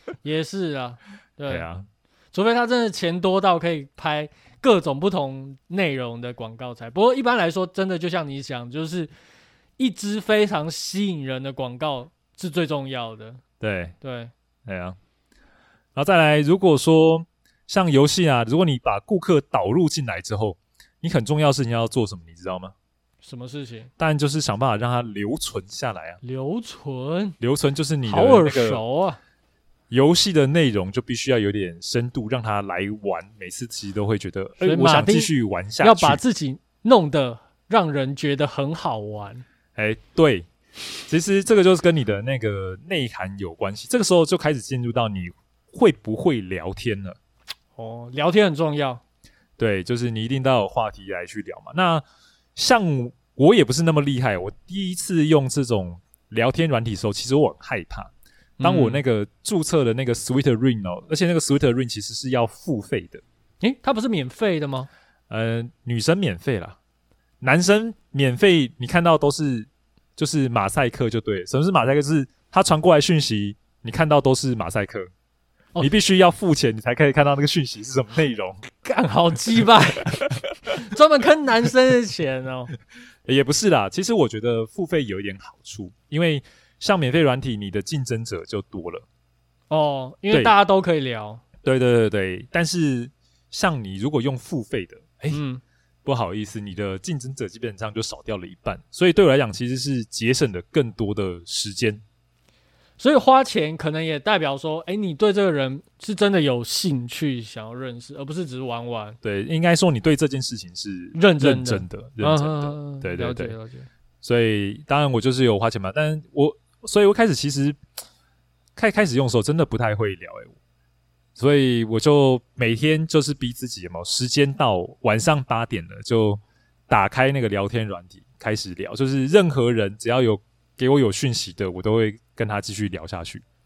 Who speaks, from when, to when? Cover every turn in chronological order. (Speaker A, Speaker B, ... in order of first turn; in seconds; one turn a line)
Speaker A: 0.2-1.7
Speaker B: 1.5-1.9
Speaker A: 2.3-9.1
Speaker A: 9.8-13.4
Speaker B: 13.6-14.0
Speaker A: 14.0-14.3
Speaker B: 14.7-15.0
Speaker B: 15.9-22.7
Speaker A: 23.2-23.9
Speaker B: 24.0-26.2
Speaker A: 26.2-27.4
Speaker B: 27.4-28.8
Speaker A: 28.1-29.2
Speaker B: 29.9-36.2
Speaker A: 34.6-39.4
Speaker B: 39.8-40.5
Speaker B: 41.1-47.2
Speaker A: 47.8-49.0
Speaker B: 49.6-52.0
Speaker B: 52.6-63.2
Speaker A: 58.6-59.0
Speaker A: 63.6-64.9
Speaker B: 65.3-66.8
Speaker B: 67.4-75.1
Speaker B: 75.8-78.6
Speaker A: 78.8-82.7
Speaker B: 83.3-89.0
Speaker A: 89.7-91.4
Speaker B: 90.3-90.6
Speaker B: 91.6-95.4
Speaker A: 95.3-95.6
Speaker B: 96.0-102.0
Speaker A: 103.0-109.2
Speaker B: 109.2-113.5
Speaker A: 111.1-113.9
Speaker B: 114.2-117.8
Speaker B: 118.8-120.6
Speaker B: 121.4-133.4